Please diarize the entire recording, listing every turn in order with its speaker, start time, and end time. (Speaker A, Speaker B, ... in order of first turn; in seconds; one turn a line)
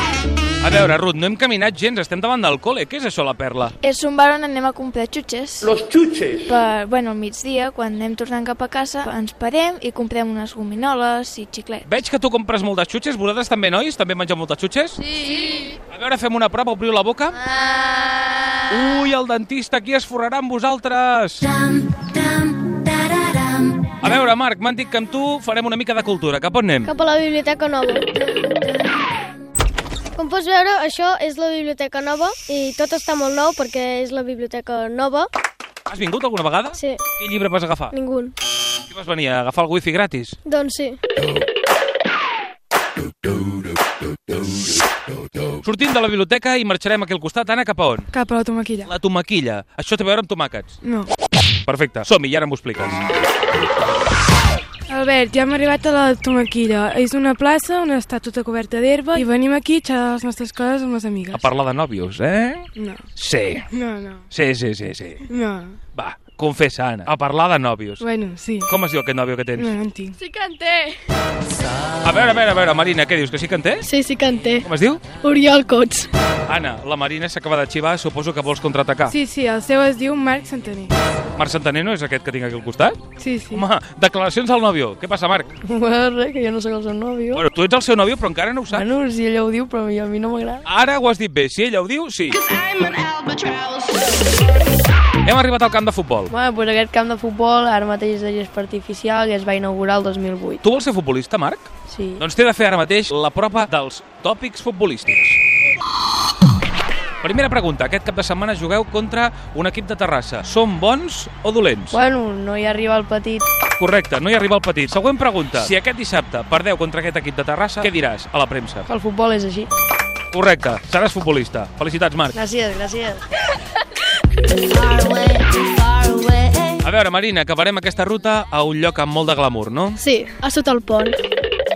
Speaker A: 0.6-3.7
Speaker B: 3.8-11.8
Speaker A: 11.8-15.0
Speaker A: 15.9-17.4
Speaker A: 18.7-21.7
Speaker A: 24.0-26.9
Speaker C: 26.8-28.1
Speaker C: 30.1-35.3
Speaker A: 35.9-37.9
Speaker C: 37.9-38.3
Speaker A: 38.9-40.4
Speaker C: 40.4-41.0
Speaker A: 45.6-48.1
Speaker D: 48.1-48.9
Speaker A: 48.8-50.7
Speaker D: 50.8-51.1
Speaker A: 51.6-53.0
Speaker D: 54.9-61.5
Speaker A: 61.3-63.7
Speaker D: 62.8-63.0
Speaker D: 63.7-64.2
Speaker A: 64.3-65.2
Speaker D: 65.3-65.8
Speaker A: 65.9-68.0
Speaker D: 68.0-68.7
Speaker A: 68.7-69.7
Speaker D: 69.5-70.2
Speaker C: 70.2-70.9
Speaker A: 72.0-73.8
Speaker C: 73.9-74.6
Speaker A: 74.6-75.0
Speaker C: 75.2-76.1
Speaker A: 76.5-79.1
Speaker D: 79.1-80.9
Speaker A: 81.3-83.0
Speaker D: 83.2-83.6
Speaker A: 83.5-85.5
Speaker E: 85.6-87.4
Speaker A: 87.3-88.8
Speaker E: 88.7-90.6
Speaker A: 90.6-92.5
Speaker A: 95.2-96.3
Speaker E: 96.3-100.6
Speaker A: 100.6-105.4
Speaker E: 101.9-102.2
Speaker A: 107.2-112.0
Speaker E: 111.9-113.4
Speaker A: 113.8-118.8
Speaker E: 118.8-119.7
Speaker A: 120.3-122.4
Speaker E: 122.3-123.2
Speaker E: 124.6-126.8
Speaker A: 126.8-130.0
Speaker C: 130.0-131.2